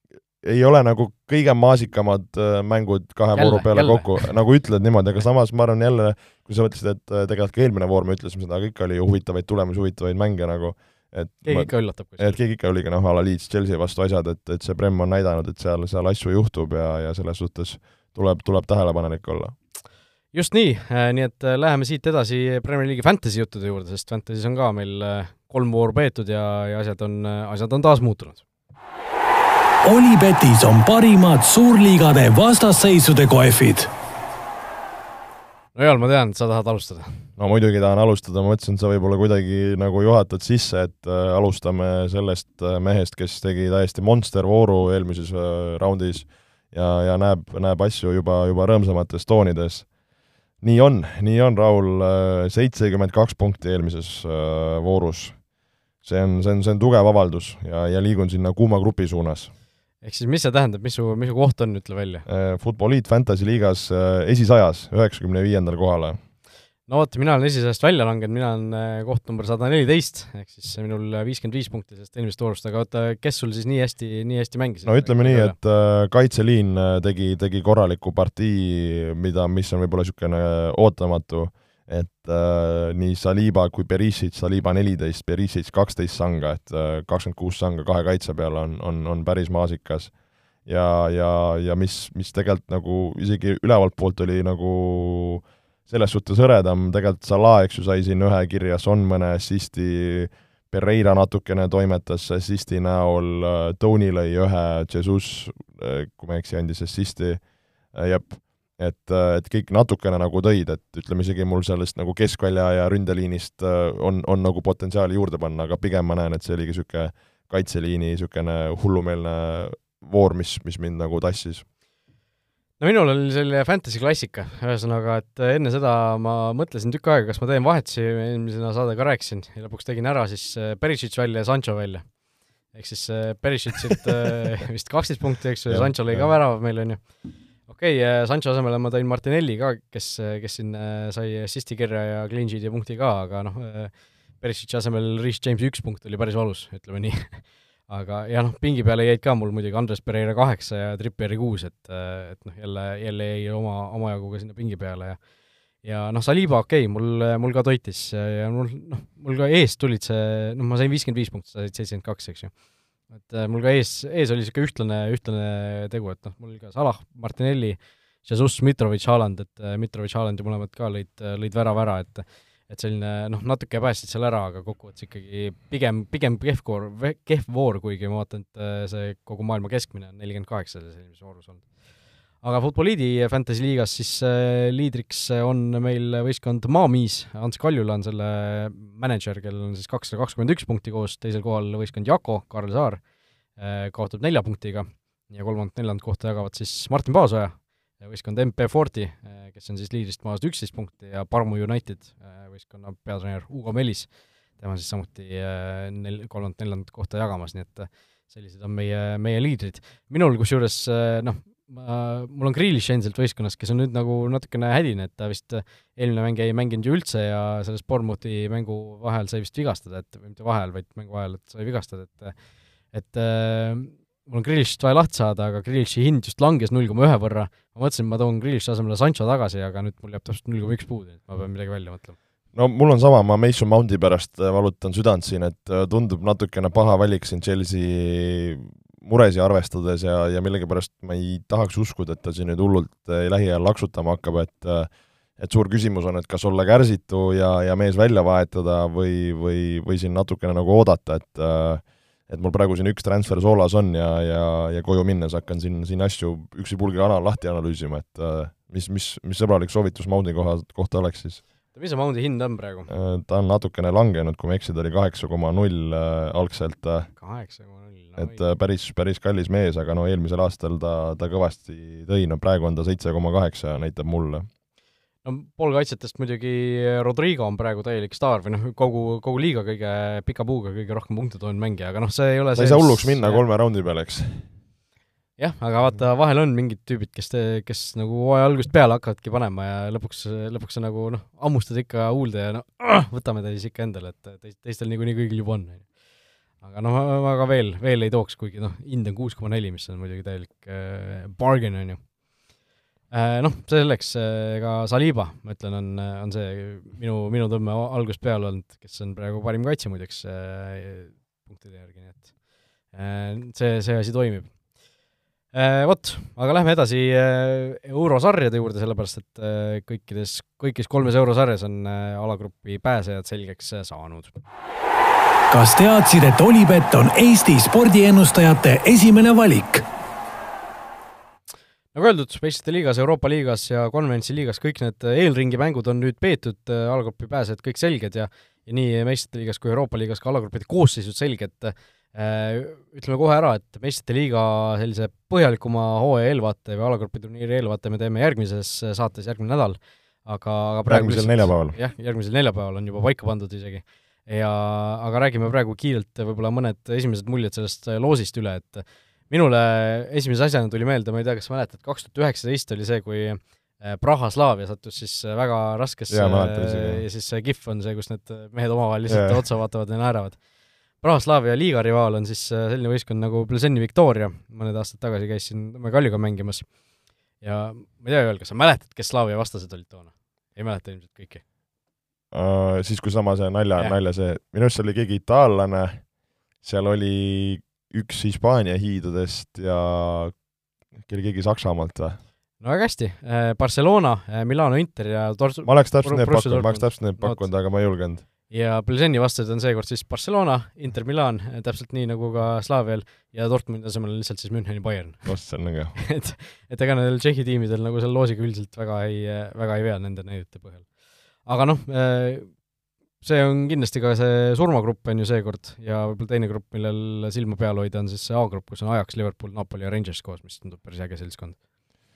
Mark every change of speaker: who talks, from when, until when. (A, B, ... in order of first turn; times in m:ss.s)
0:00.4-0:19.5 A
0:03.3-0:04.3 B
0:11.4-0:12.4 B
0:20.3-0:28.4 B
0:29.8-0:33.9 C
0:35.7-0:37.2 B
0:37.4-0:49.8 A
0:50.6-0:55.4 A
0:56.0-0:59.5 A
1:00.0-1:02.2 B
1:02.2-1:06.2 A
1:06.9-1:15.5 B
1:14.8-1:30.1 A
1:30.6-1:47.4 A
1:47.9-2:01.6 A
2:02.8-2:12.0 B
2:12.7-2:17.0 B
2:15.7-2:16.3 A
2:17.7-2:35.2 B
2:35.8-2:42.5 B
2:43.1-3:01.6 B
3:02.4-3:13.0 B
3:13.6-3:42.3 B
3:42.9-3:52.2 B
3:52.5-4:21.4 A
4:21.7-4:22.9 B
4:22.9-4:27.1 A
4:27.2-4:28.4 B
4:28.2-4:34.5 A
4:35.2-4:43.4 B
4:42.6-4:44.4 A
4:45.4-4:55.8 B
4:56.6-5:02.0 B
5:03.1-5:12.3 B
5:12.9-5:14.5 B
5:15.5-5:24.4 B
5:25.5-5:29.8 C
5:31.9-6:10.4 B
5:50.9-5:51.8 A
6:06.1-6:07.0 A
6:09.1-6:09.4 A
6:11.0-6:16.6 B
6:17.4-6:21.4 B
6:22.3-6:26.0 A
6:26.6-6:30.3 A
6:31.0-6:32.2 A
6:32.6-6:37.5 B
6:35.6-6:38.2 A
6:38.5-6:45.3 B
6:45.2-6:46.0 A
6:45.9-6:50.8 B
6:51.4-6:52.5 B
6:53.2-7:01.6 B